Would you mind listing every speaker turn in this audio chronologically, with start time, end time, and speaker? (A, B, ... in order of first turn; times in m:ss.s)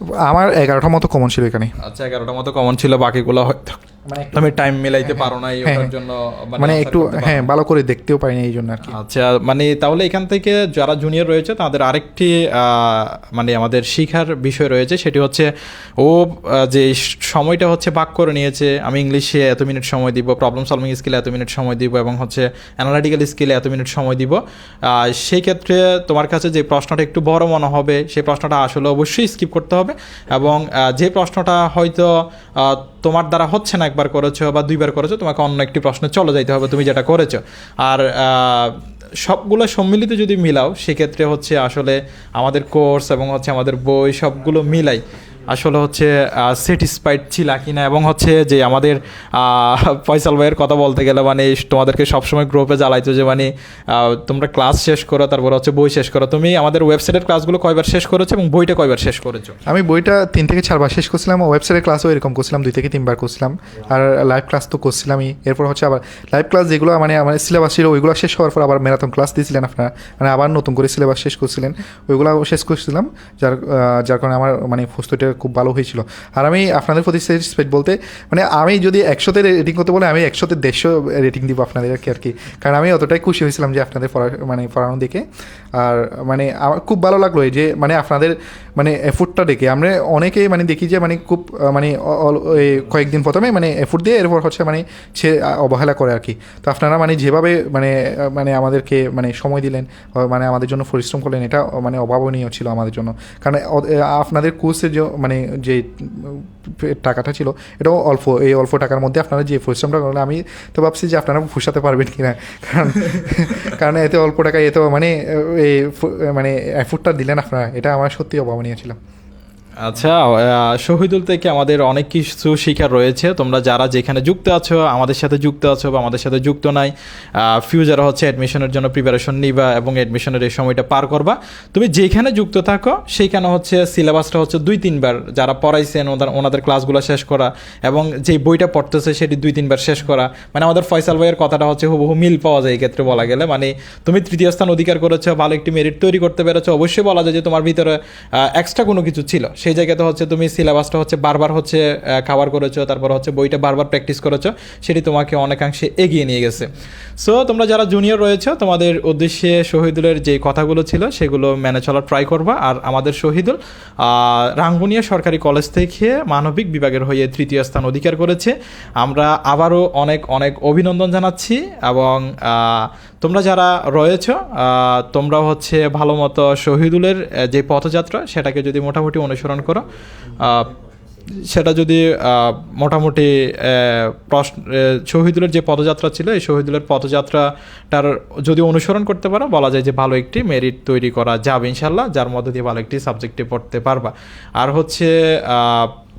0:00.1-0:01.7 A
0:01.8-0:03.8 B
0:04.1-0:05.9 A
0:04.3-0:07.5 B
0:06.6-0:09.0 A
0:08.9-0:59.6 B
0:59.7-1:59.0 A
1:59.8-3:00.7 B
3:01.4-3:15.9 B